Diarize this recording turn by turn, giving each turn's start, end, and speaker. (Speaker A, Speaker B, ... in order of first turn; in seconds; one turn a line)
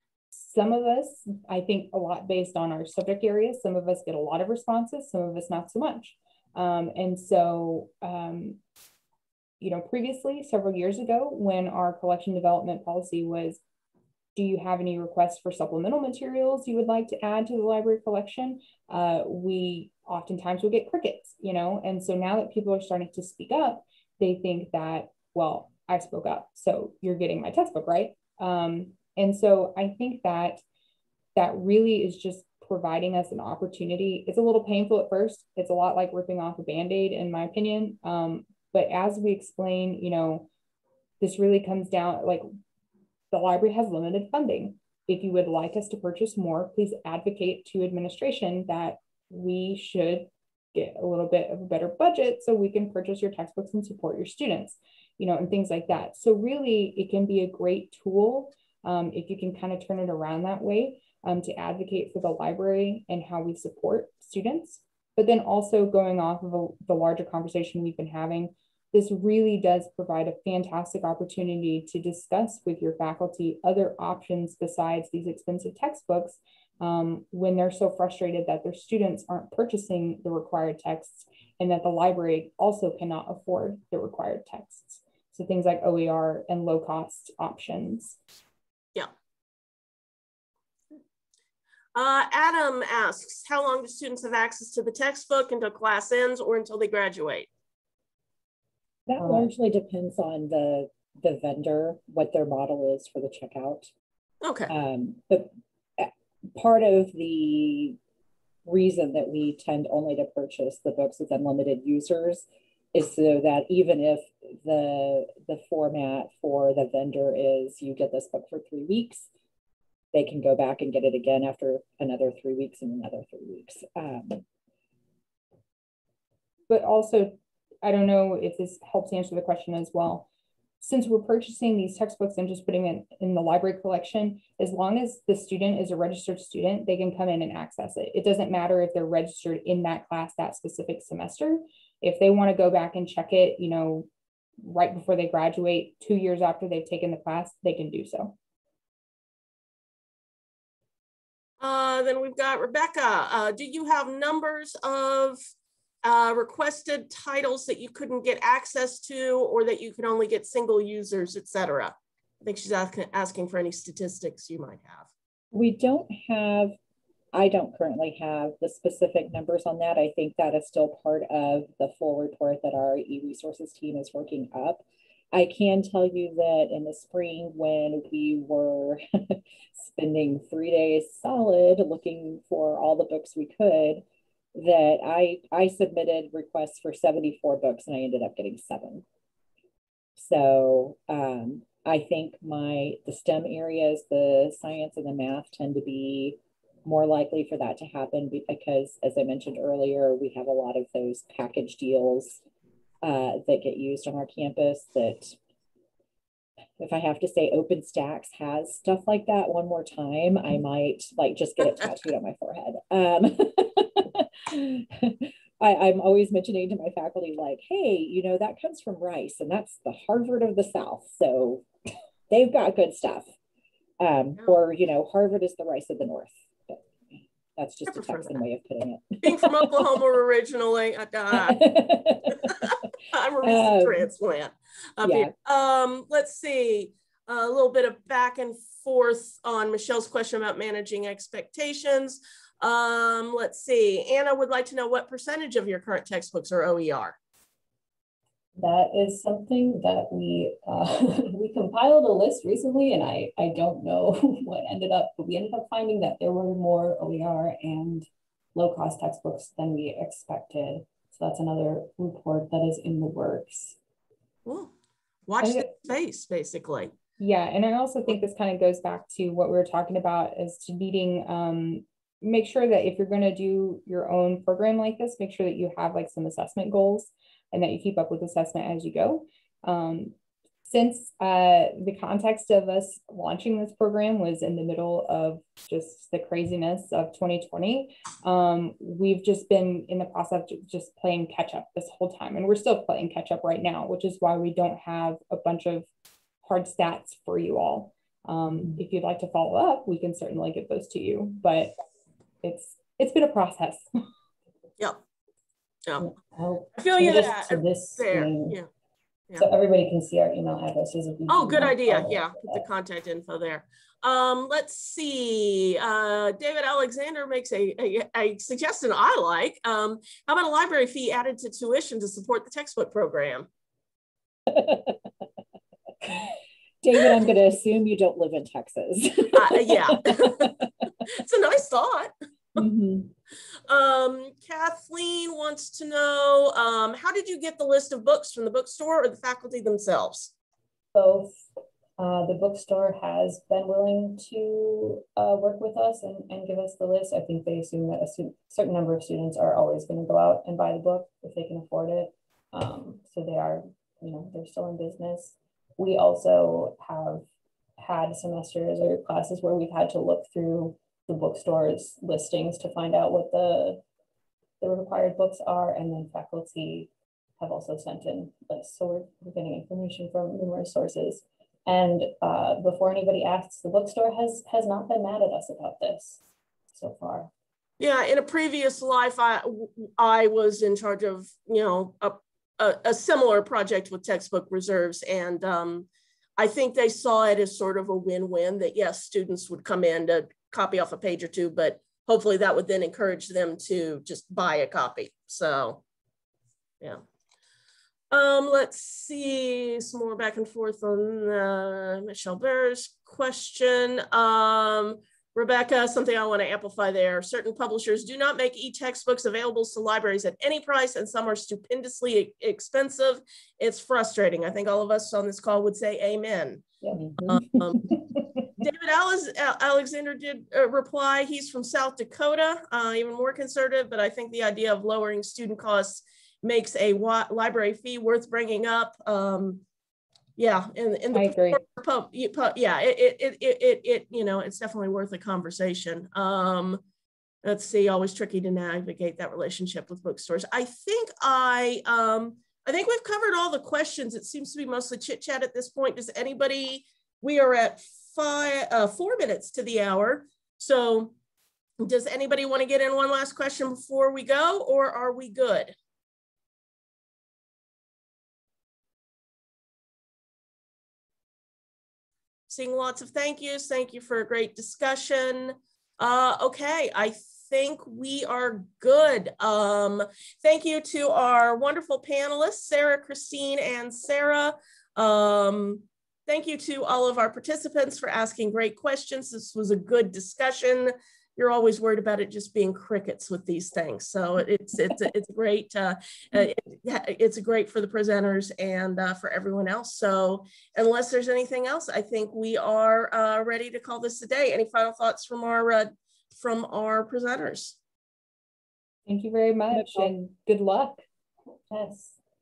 Speaker A: 0.3-8.6
Speaker A: 9.6-13.6
Speaker A: 14.3-30.6
Speaker A: 31.4-40.5
Speaker A: 41.2-42.5
Speaker A: 43.3-88.2
Speaker B: 91.9-97.5
Speaker C: 99.1-103.9
Speaker D: 99.2-99.5
Speaker B: 104.4-104.7
Speaker C: 104.7-108.0
Speaker C: 108.6-119.3
Speaker C: 120.1-124.4
Speaker A: 126.7-130.3
Speaker A: 130.8-144.1
Speaker A: 144.6-148.3
Speaker B: 151.6-155.4
Speaker B: 156.0-165.1
Speaker C: 165.5-166.8
Speaker C: 167.3-189.0
Speaker C: 190.2-202.4
Speaker C: 203.0-205.4
Speaker C: 206.8-221.6
Speaker C: 222.3-223.3
Speaker C: 224.0-226.8
Speaker C: 227.6-230.0
Speaker B: 227.9-228.4
Speaker B: 229.2-231.6
Speaker C: 231.3-232.8
Speaker B: 232.4-247.2
Speaker C: 233.4-234.1
Speaker C: 235.0-235.3
Speaker D: 248.6-263.8
Speaker B: 264.4-264.7
Speaker B: 265.3-266.9
Speaker A: 265.4-265.7
Speaker A: 267.2-280.1
Speaker A: 280.6-295.9
Speaker A: 296.4-301.7
Speaker A: 302.4-303.9
Speaker D: 306.0-308.6
Speaker B: 306.8-308.7
Speaker D: 309.4-312.6
Speaker B: 311.3-323.5
Speaker C: 324.5-325.0
Speaker C: 326.1-326.3
Speaker C: 326.8-330.7
Speaker B: 329.3-332.6
Speaker C: 332.6-333.1
Speaker B: 333.7-340.3
Speaker D: 340.9-341.4
Speaker D: 342.0-357.3
Speaker D: 357.8-363.8
Speaker D: 364.6-376.2
Speaker D: 376.7-377.3
Speaker B: 377.8-395.8
Speaker B: 398.1-416.6
Speaker D: 416.8-417.4
Speaker B: 417.3-417.9
Speaker B: 418.6-429.6
Speaker B: 430.4-436.8
Speaker A: 431.1-431.6
Speaker B: 437.4-451.1
Speaker B: 451.8-455.7
Speaker B: 462.5-497.8
Speaker A: 499.1-501.1
Speaker D: 501.7-502.1